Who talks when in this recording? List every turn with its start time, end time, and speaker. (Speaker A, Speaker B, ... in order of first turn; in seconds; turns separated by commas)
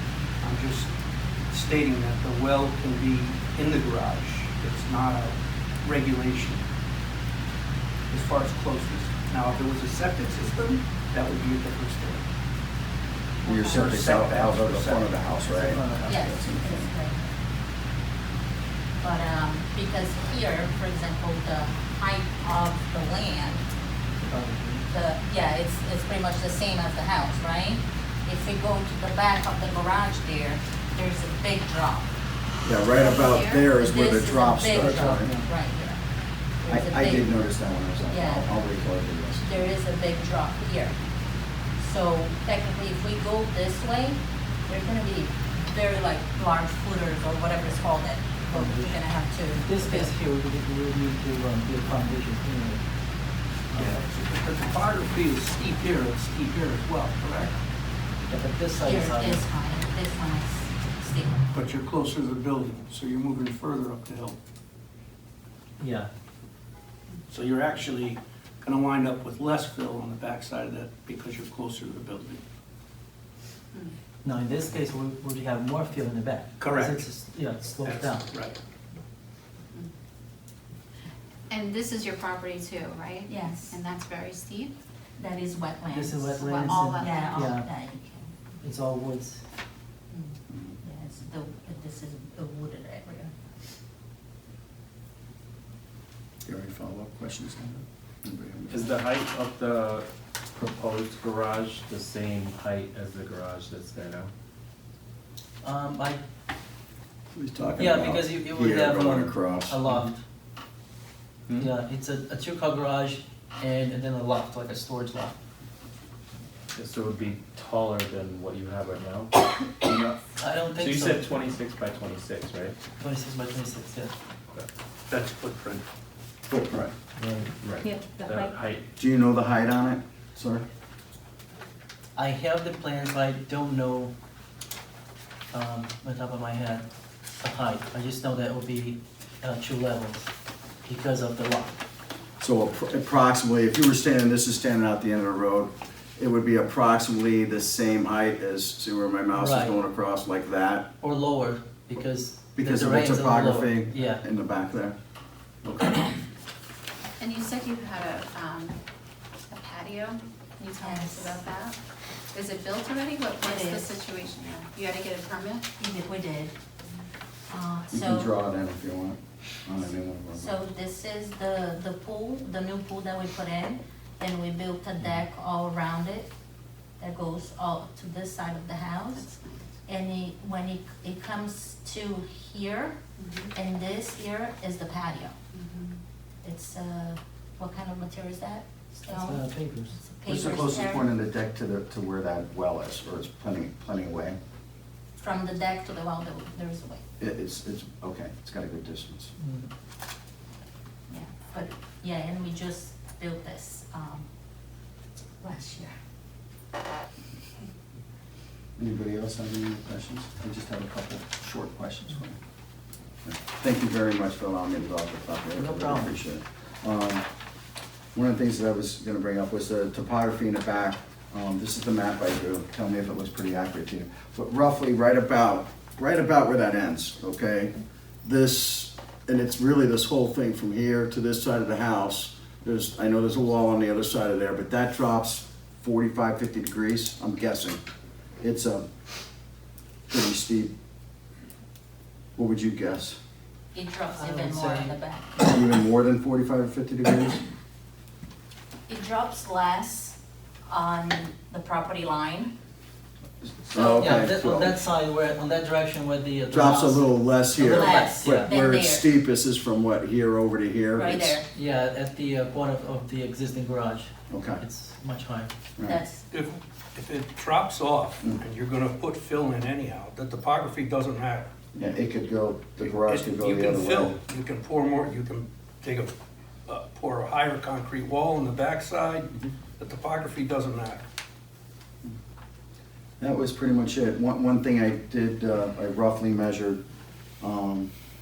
Speaker A: 0.4-0.9, Speaker A: 1.5-6.7, Speaker A: 8.1-12.2, Speaker B: 13.4-13.8, Speaker C: 13.4-16.9, Speaker A: 13.7-15.9, Speaker D: 15.7-16.1, Speaker E: 16.0-17.3, Speaker E: 19.0-23.6, Speaker D: 24.2-24.8, Speaker E: 24.9-32.1, Speaker C: 32.6-35.3, Speaker E: 32.9-36.0, Speaker D: 35.0-35.5, Speaker E: 36.6-37.3, Speaker C: 36.7-39.7, Speaker E: 38.0-38.5, Speaker E: 39.4-41.0, Speaker E: 41.8-50.1, Speaker D: 48.5-49.0, Speaker D: 49.5-52.8, Speaker D: 53.7-54.0, Speaker A: 53.7-57.5, Speaker D: 58.3-59.5, Speaker E: 58.7-61.5, Speaker A: 61.5-64.4, Speaker D: 65.8-66.1, Speaker A: 67.3-72.4, Speaker D: 74.2-78.3, Speaker A: 76.6-77.1, Speaker A: 77.7-78.5, Speaker B: 81.5-84.7, Speaker E: 83.2-83.8, Speaker E: 85.2-88.3, Speaker D: 85.9-87.7, Speaker B: 86.3-87.5, Speaker D: 88.6-89.4, Speaker E: 90.1-93.3, Speaker C: 90.5-90.8, Speaker C: 96.4-98.9, Speaker F: 98.7-104.3, Speaker D: 105.6-106.2, Speaker C: 107.3-109.8, Speaker D: 107.8-110.2, Speaker D: 111.5-115.3, Speaker F: 116.7-122.8, Speaker D: 120.4-121.4, Speaker D: 123.0-124.1, Speaker A: 125.1-125.8, Speaker C: 126.5-126.9, Speaker F: 127.2-128.8, Speaker C: 129.0-130.7, Speaker D: 132.2-134.1, Speaker D: 135.5-136.8, Speaker D: 137.4-140.3, Speaker D: 140.8-141.8, Speaker C: 142.4-150.9, Speaker D: 149.3-149.8, Speaker D: 151.0-154.2, Speaker C: 152.6-154.9, Speaker C: 155.6-156.1, Speaker B: 157.2-158.8, Speaker B: 159.5-161.8, Speaker E: 160.8-161.4, Speaker B: 162.3-165.7, Speaker E: 163.4-164.0, Speaker E: 165.8-166.6, Speaker E: 167.5-168.3, Speaker C: 167.9-170.6, Speaker E: 170.3-176.3, Speaker E: 177.0-179.2, Speaker B: 179.2-179.7, Speaker E: 179.8-183.0, Speaker B: 183.2-183.5, Speaker E: 183.5-185.3, Speaker B: 185.5-186.0, Speaker E: 186.4-191.1, Speaker D: 189.1-190.0, Speaker C: 190.2-194.4, Speaker E: 195.2-197.0, Speaker C: 197.2-199.3, Speaker D: 199.4-199.7, Speaker E: 201.1-204.3, Speaker E: 205.4-205.9, Speaker C: 208.8-212.4, Speaker C: 213.2-217.2, Speaker D: 215.6-216.1, Speaker C: 218.1-237.8, Speaker C: 238.4-238.9, Speaker C: 240.1-240.7, Speaker C: 242.3-243.2, Speaker E: 243.7-245.4, Speaker D: 244.1-244.9, Speaker C: 245.5-247.4, Speaker E: 248.9-250.2, Speaker E: 250.7-252.5, Speaker C: 253.4-254.8, Speaker E: 253.7-254.1, Speaker D: 253.9-258.5, Speaker C: 256.5-261.4, Speaker E: 257.6-259.1, Speaker E: 260.9-261.5, Speaker D: 261.5-265.5, Speaker C: 264.3-264.6, Speaker E: 265.9-266.2, Speaker A: 266.3-271.5, Speaker C: 271.7-274.2, Speaker A: 272.8-276.1, Speaker A: 276.7-281.0, Speaker C: 283.2-286.8, Speaker C: 287.4-287.9